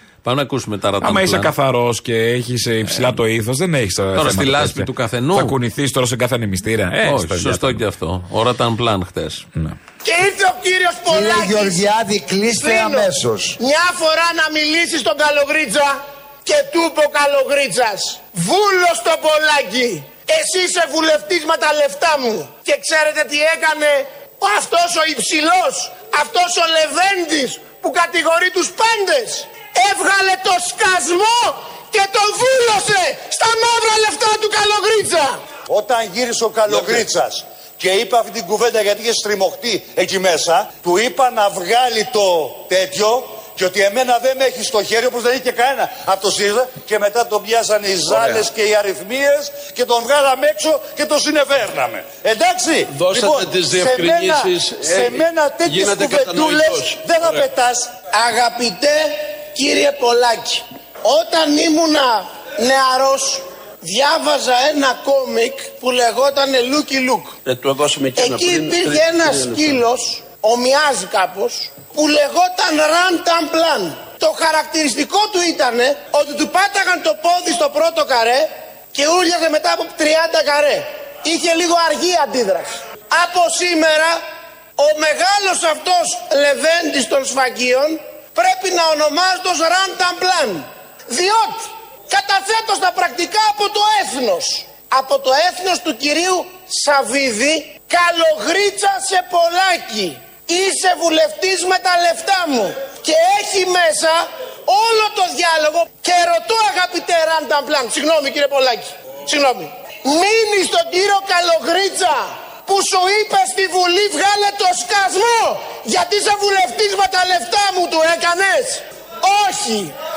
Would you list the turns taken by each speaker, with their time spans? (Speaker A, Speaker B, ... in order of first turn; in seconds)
Speaker A: 0.2-1.5, 4.1-5.5, 7.0-9.4
Speaker B: 1.0-7.8
Speaker C: 10.0-35.4, 56.0-57.5, 58.1-67.4, 68.1-84.2, 84.8-119.9
Speaker D: 11.1-13.3, 35.7-57.8
Speaker E: 48.1-48.4, 52.9-57.0, 67.5-69.8